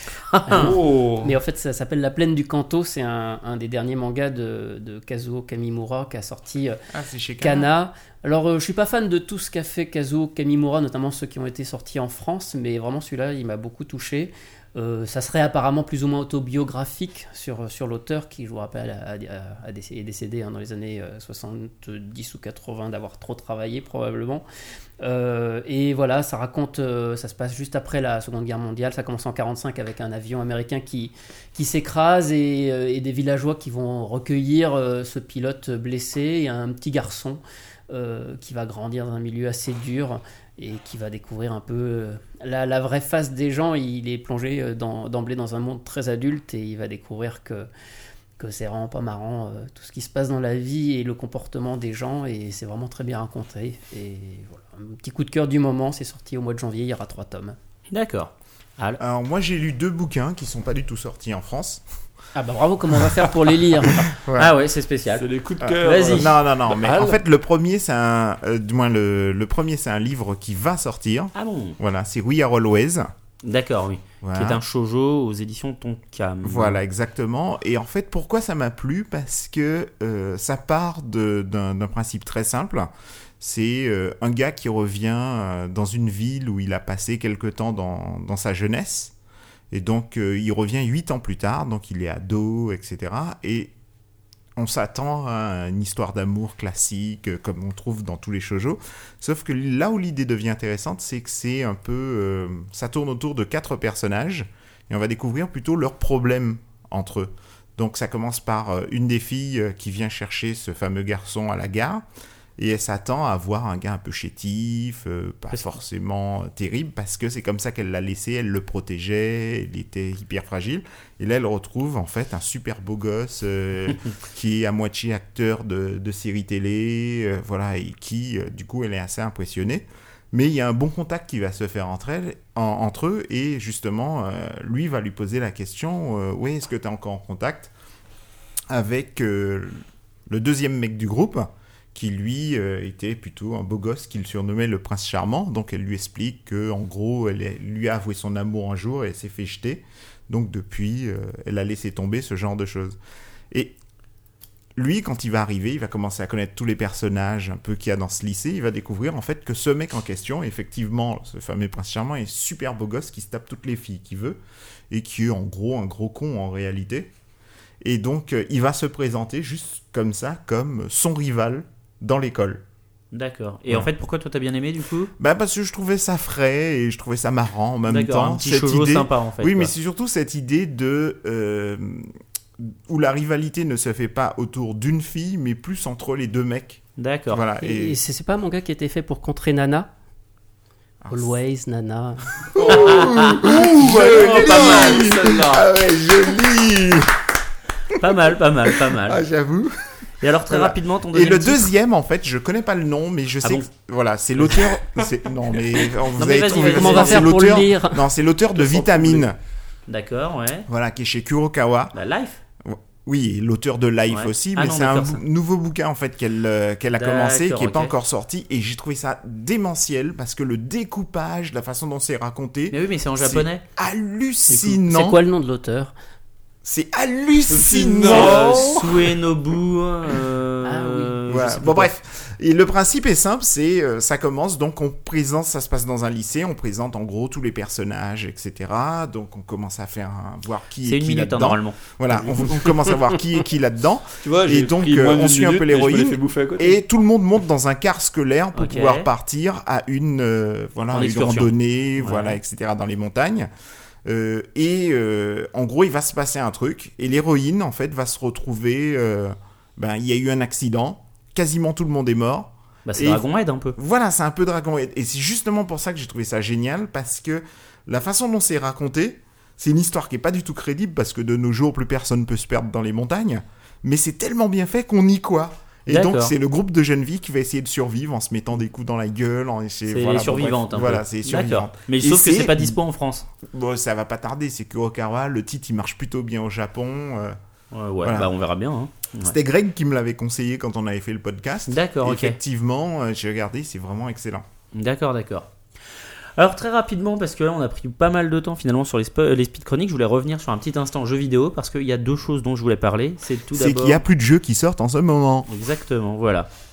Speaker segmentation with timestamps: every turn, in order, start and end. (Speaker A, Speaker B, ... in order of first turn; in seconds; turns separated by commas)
Speaker A: 0.3-0.7, Speaker B: 0.5-6.8, Speaker C: 0.5-1.4, Speaker D: 6.9-7.7, Speaker B: 7.4-24.4, Speaker B: 25.0-47.7, Speaker B: 48.4-57.5, Speaker A: 57.9-59.0, Speaker D: 59.0-61.8, Speaker B: 62.3-64.0, Speaker D: 64.1-64.5, Speaker A: 64.3-65.2, Speaker C: 65.2-67.2, Speaker D: 65.6-73.1, Speaker A: 65.8-66.3, Speaker A: 71.3-71.8, Speaker A: 73.4-76.8, Speaker D: 74.2-74.6, Speaker D: 76.4-89.1, Speaker D: 89.7-93.7, Speaker D: 94.6-112.0, Speaker D: 112.6-137.7, Speaker A: 115.5-115.8, Speaker D: 138.7-153.0, Speaker D: 154.8-164.4, Speaker D: 164.9-167.1, Speaker D: 167.8-172.6, Speaker A: 173.1-175.1, Speaker D: 175.2-188.0, Speaker A: 177.9-179.7, Speaker A: 187.0-187.4, Speaker B: 187.6-189.9, Speaker D: 191.0-191.3, Speaker B: 191.1-192.3, Speaker D: 192.5-197.2, Speaker C: 192.6-195.7, Speaker A: 193.0-193.3, Speaker A: 194.2-194.9, Speaker A: 197.9-199.2, Speaker D: 198.8-209.3, Speaker A: 200.2-201.7, Speaker A: 206.2-207.6, Speaker B: 206.7-208.0, Speaker C: 208.6-209.2, Speaker A: 209.9-210.7, Speaker D: 210.7-211.9, Speaker A: 211.9-212.4, Speaker D: 212.6-225.2, Speaker A: 214.1-215.2, Speaker A: 216.9-217.9, Speaker A: 222.7-223.6, Speaker B: 224.5-225.9, Speaker D: 226.6-228.8, Speaker C: 227.5-229.0, Speaker A: 228.0-231.9, Speaker B: 230.6-231.1, Speaker D: 231.3-253.5, Speaker A: 240.8-242.6, Speaker C: 244.2-246.8, Speaker A: 248.5-249.1, Speaker A: 250.9-252.4, Speaker D: 254.1-263.2, Speaker A: 262.9-263.8, Speaker D: 263.8-282.8, Speaker A: 275.9-276.3, Speaker A: 279.9-283.2, Speaker D: 283.4-287.4, Speaker A: 287.7-289.4, Speaker D: 288.0-288.3, Speaker D: 289.2-294.4, Speaker A: 291.7-292.4, Speaker A: 294.7-295.5, Speaker A: 296.4-304.0, Speaker D: 303.5-305.5, Speaker A: 305.5-306.5